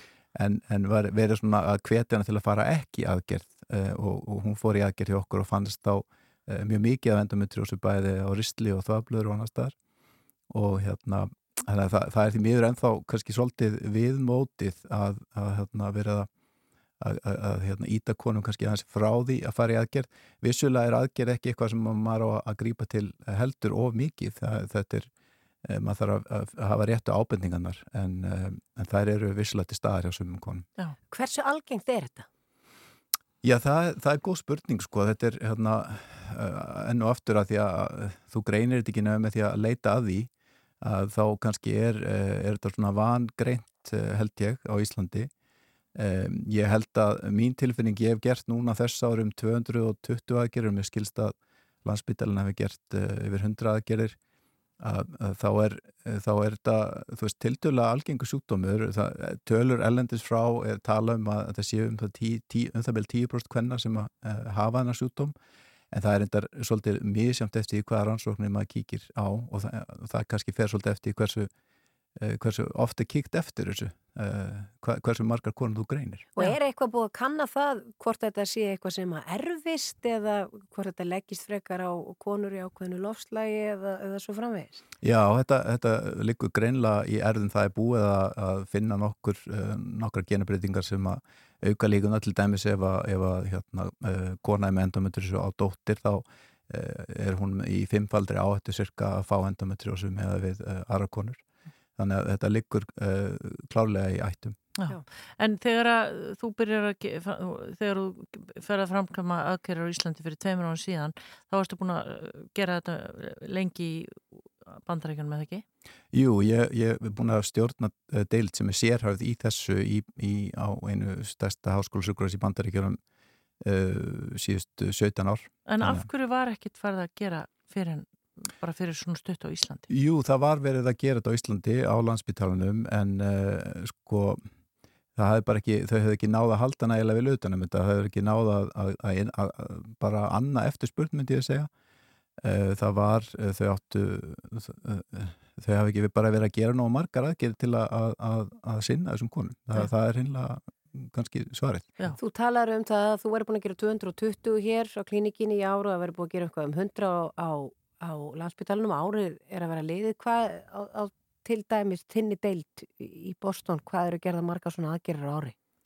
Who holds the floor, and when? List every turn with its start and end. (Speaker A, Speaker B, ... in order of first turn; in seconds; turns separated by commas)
Speaker A: 0.3-9.8, Speaker A: 10.5-16.3, Speaker A: 17.0-25.1, Speaker A: 25.6-30.7, Speaker B: 31.1-32.3, Speaker A: 33.4-40.3, Speaker A: 40.8-45.3, Speaker A: 46.0-54.2, Speaker A: 54.8-65.3, Speaker A: 65.9-71.5, Speaker A: 72.2-76.3, Speaker B: 76.4-84.8, Speaker A: 85.0-101.4, Speaker A: 102.0-104.6, Speaker C: 104.8-115.6, Speaker A: 116.1-123.0, Speaker A: 123.6-126.1, Speaker C: 125.7-129.9, Speaker A: 129.9-134.4, Speaker A: 135.2-141.7, Speaker A: 142.4-151.9, Speaker B: 152.2-165.6